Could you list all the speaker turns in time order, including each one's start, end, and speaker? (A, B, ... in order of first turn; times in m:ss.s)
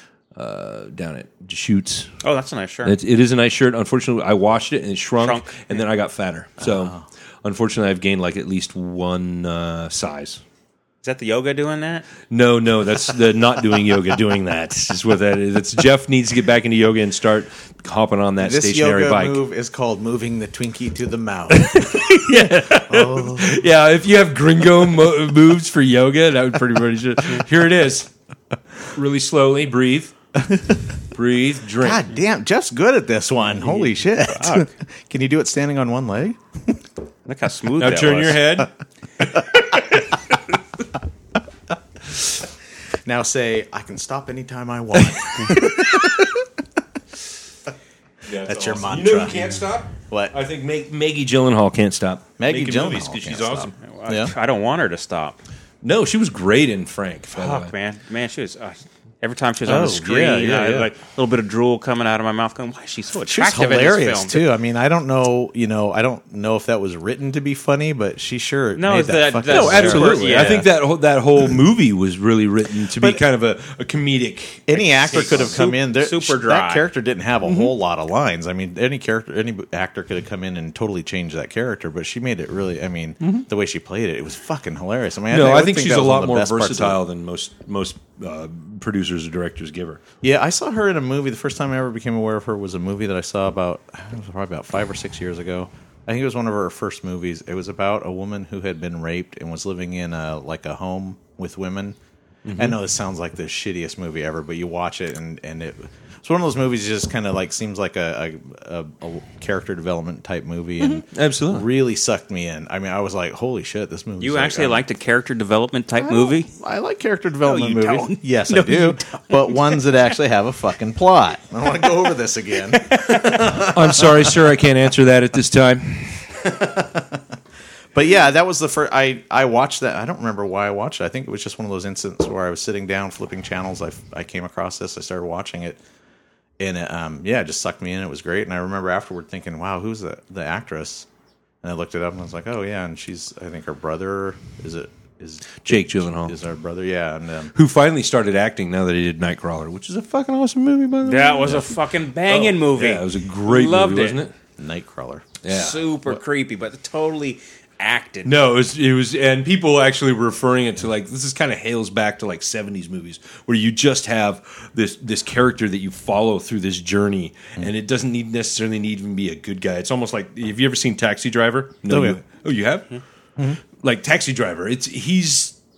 0:00.3-0:02.1 A
0:02.2-0:03.0 B
0:02.8-0:10.4 A
0:05.2-0:05.8 B
0:06.6-0:07.0 C
0:11.0-0:12.1 B
0:12.3-0:19.4 A
0:18.4-0:22.1 C
0:21.5-0:28.1 A
0:22.9-0:23.6 C
0:28.9-0:30.1 A
0:30.4-0:30.8 C
0:31.1-0:32.0 A
0:31.8-0:36.7 C
0:33.5-0:34.7 B
0:37.2-0:38.6 B
0:37.8-0:38.7 A
0:43.0-0:46.5 C
0:48.2-0:53.7 A
0:48.4-0:49.4 C
0:50.1-0:50.3 C
0:52.4-0:54.3 C
0:53.8-0:55.4 B
0:55.8-0:57.7 A
0:57.3-1:04.5 B
0:59.6-1:00.9 C
1:03.3-1:10.7 C
1:08.8-1:10.7 B
1:09.5-1:15.6 A
1:13.0-1:13.2 C
1:14.7-1:27.0 C
1:15.1-1:16.8 B
1:17.4-1:17.7 A
1:23.2-1:23.4 A
1:25.3-1:30.0 A
1:30.2-1:42.0 C
1:42.4-1:42.8 A
1:42.6-1:54.8 C
1:50.8-1:51.7 A
1:54.2-1:56.5 B
1:56.0-2:04.4 C
1:57.4-2:00.0 B
2:02.9-2:03.4 B
2:03.5-2:06.3 A
2:06.4-2:07.2 C
2:07.9-2:15.8 C
2:16.6-2:21.1 C
2:21.6-2:27.5 C
2:25.6-2:26.4 A
2:27.5-2:34.3 A
2:31.0-2:34.2 B
2:34.6-2:35.3 C
2:35.4-2:35.8 A
2:35.5-2:38.3 B
2:38.2-2:52.9 A
2:51.9-2:52.2 C
2:53.8-2:55.6 A